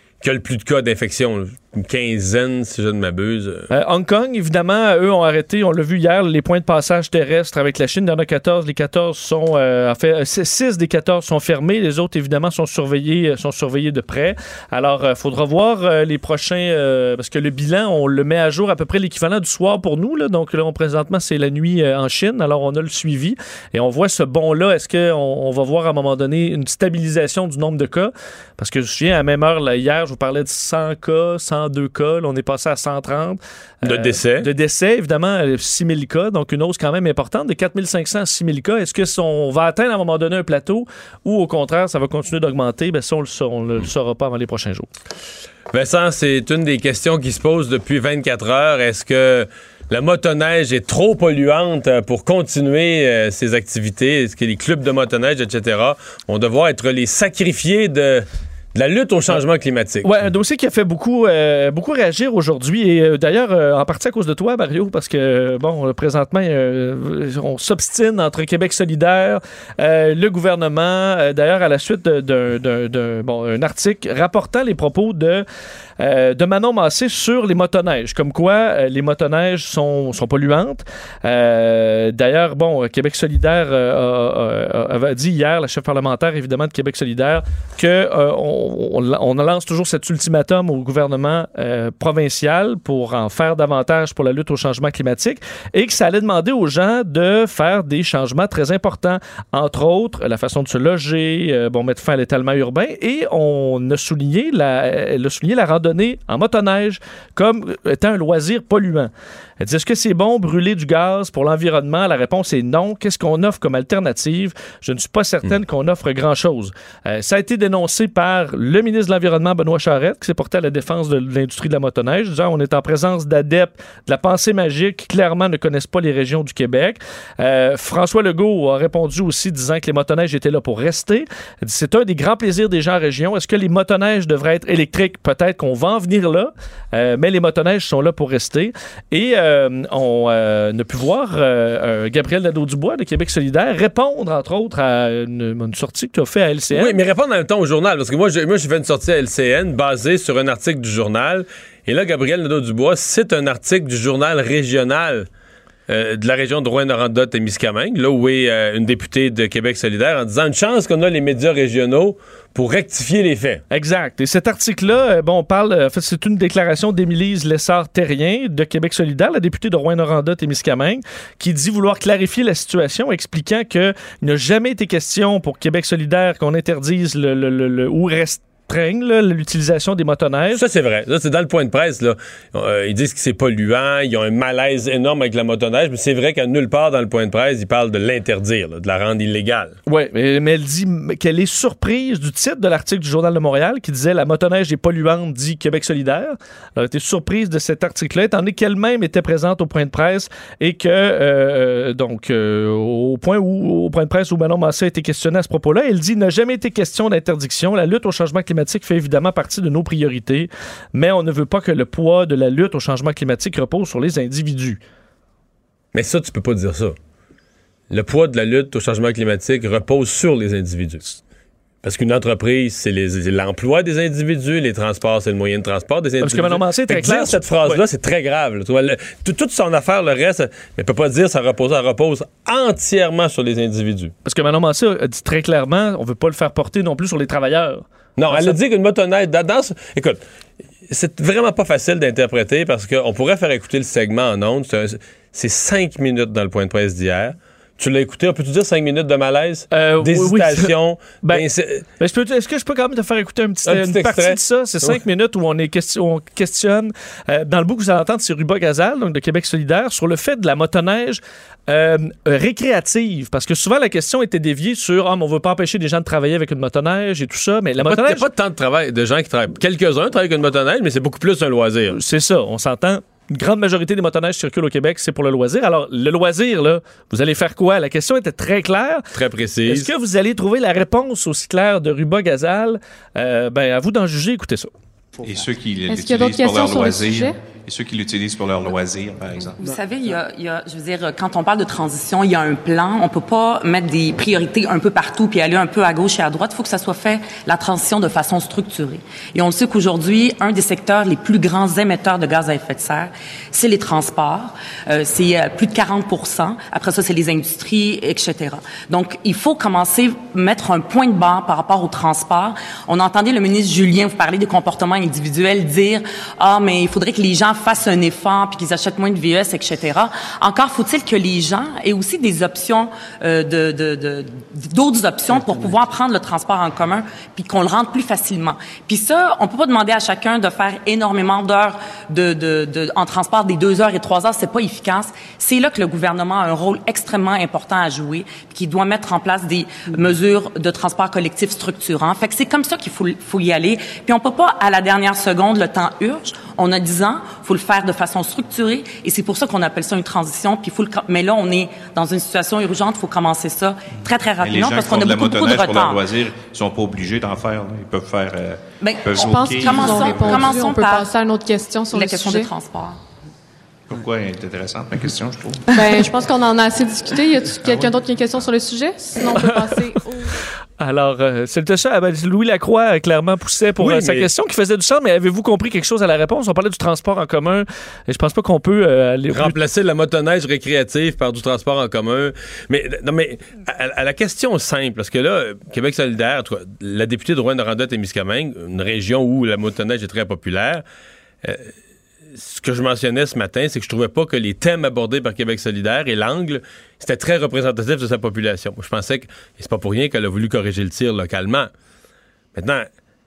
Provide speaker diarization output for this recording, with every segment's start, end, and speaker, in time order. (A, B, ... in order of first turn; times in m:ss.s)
0:00.2-0:03.7 A
0:03.7-0:44.9 B
0:33.8-0:34.5 A
0:45.7-1:00.1 A
1:00.0-1:15.4 B
1:16.0-2:27.0 B
2:26.7-2:35.3 A
2:35.9-2:43.6 A
2:43.7-3:00.6 B
3:00.5-3:09.8 A
3:09.9-3:34.8 B
3:35.9-3:37.0 A
3:37.9-3:41.1 A
3:41.8-3:54.1 A
3:46.2-3:47.8 B
3:54.2-3:58.6 B
3:58.2-4:00.2 A
4:00.9-4:11.8 A
4:09.7-4:10.7 B
4:12.0-4:28.3 B
4:13.7-4:15.0 A
4:27.8-4:32.0 A
4:31.9-4:39.1 B
4:39.1-4:39.9 A
4:39.7-4:44.7 B
4:45.2-4:49.6 C
4:45.9-4:47.4 D
4:49.6-5:56.1 E
5:54.4-6:00.7 C
5:58.8-6:01.2 E
5:59.2-6:02.5 D
6:01.9-6:03.0 E
6:03.9-6:06.1 C
6:05.7-6:10.4 D
6:07.6-6:08.0 C
6:09.3-6:09.6 B
6:10.8-6:19.6 B
6:13.8-6:14.3 A
6:19.3-6:30.8 A
6:31.4-6:31.7 A
6:32.3-6:41.7 A
6:42.6-6:42.9 A